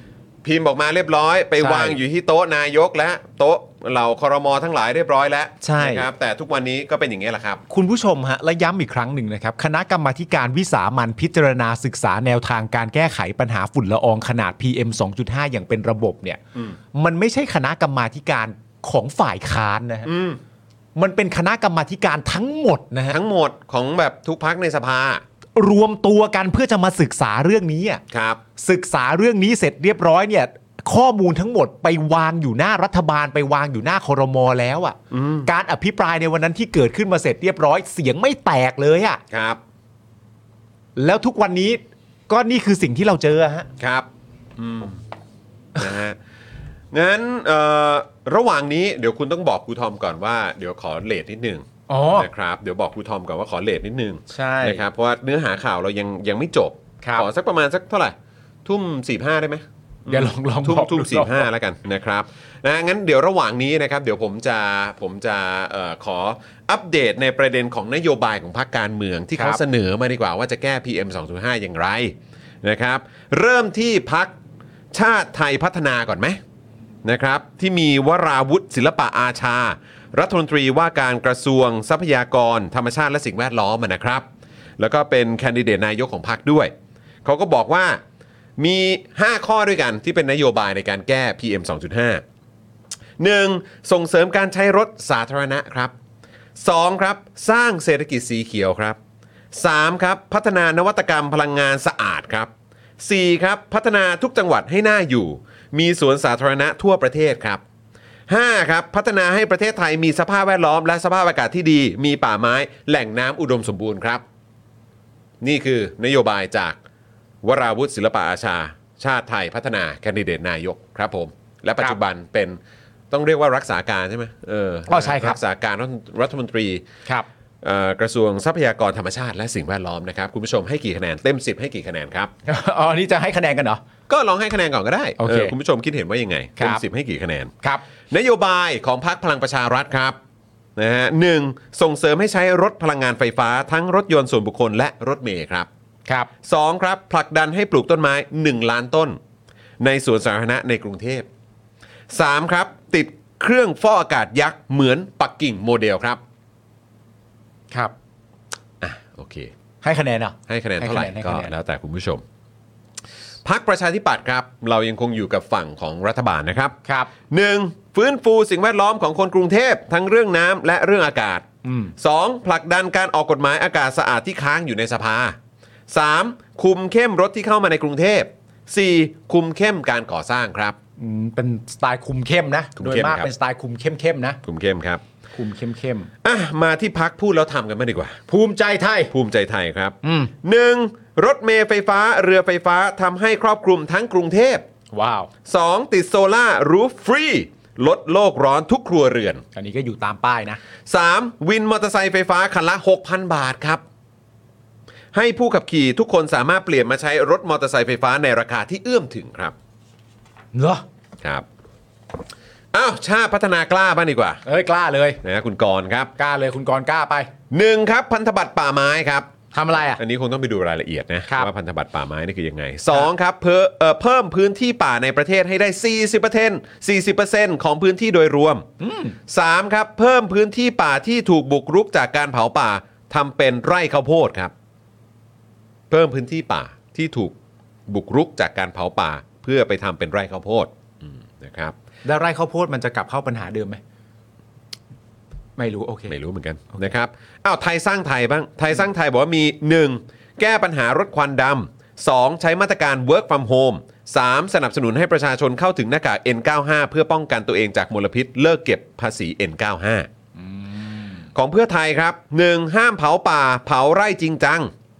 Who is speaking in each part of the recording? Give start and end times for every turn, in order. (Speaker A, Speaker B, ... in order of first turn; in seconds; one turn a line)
Speaker A: 0.4-7.6
Speaker B: 1.6-2.0
Speaker B: 5.6-6.1
Speaker B: 7.7-16.4
Speaker B: 16.9-20.1
Speaker A: 20.1-20.4
Speaker B: 21.0-23.2
Speaker A: 23.1-25.2
Speaker B: 25.6-28.0
Speaker A: 28.1-28.4
Speaker B: 28.6-39.2
Speaker A: 35.1-35.5
Speaker A: 39.3-39.6
Speaker B: 41.0-43.7
Speaker A: 43.8-45.0
Speaker A: 45.8-46.2
Speaker A: 46.9-74.3
Speaker B: 51.9-52.3
Speaker B: 54.3-54.8
Speaker B: 57.0-57.3
Speaker B: 60.1-61.5
Speaker A: 74.9-76.4
Speaker A: 77.0-84.2
Speaker A: 84.8-86.7
Speaker A: 87.2-88.0
Speaker A: 88.6-92.2
Speaker A: 93.2-95.9
Speaker A: 96.6-99.0
Speaker A: 99.5-107.6
Speaker A: 108.3-114.2
Speaker A: 115.4-116.8
Speaker A: 117.4-122.6
Speaker A: 123.1-126.8
Speaker B: 124.9-125.4
Speaker A: 127.6-132.3
Speaker B: 132.4-133.8
Speaker A: 134.1-137.5
Speaker B: 135.2-135.5
Speaker B: 136.6-136.8
Speaker A: 138.1-140.2
Speaker A: 140.8-145.7
Speaker A: 146.4-149.2
Speaker A: 149.8-151.3
Speaker A: 152.1-156.2
Speaker A: 158.8-159.5
Speaker B: 159.8-161.5
Speaker A: 160.5-162.2
Speaker A: 163.4-166.8
Speaker A: 167.3-171.5
Speaker B: 171.6-171.9
Speaker A: 172.0-175.4
Speaker A: 175.9-180.8
Speaker B: 181.0-184.4
Speaker A: 182.8-183.3
Speaker A: 184.4-185.0
Speaker B: 185.3-186.1
Speaker A: 186.2-188.2
Speaker B: 188.3-189.1
Speaker A: 189.1-194.7
Speaker B: 190.0-190.3
Speaker B: 194.9-195.3
Speaker A: 195.5-199.4
Speaker B: 199.6-200.6
Speaker A: 200.9-203.8
Speaker A: 205.1-209.6
Speaker B: 210.5-210.8
Speaker A: 212.7-214.4
Speaker B: 214.4-215.2
Speaker A: 215.2-216.1
Speaker B: 216.2-217.3
Speaker A: 217.5-219.3
Speaker B: 219.5-220.0
Speaker A: 219.8-228.7
Speaker B: 228.8-229.2
Speaker A: 229.3-234.5
Speaker A: 235.9-237.3
Speaker A: 237.9-241.8
Speaker B: 242.1-243.8
Speaker B: 245.6-246.2
Speaker A: 246.1-260.1
Speaker B: 260.4-261.2
Speaker A: 261.4-264.7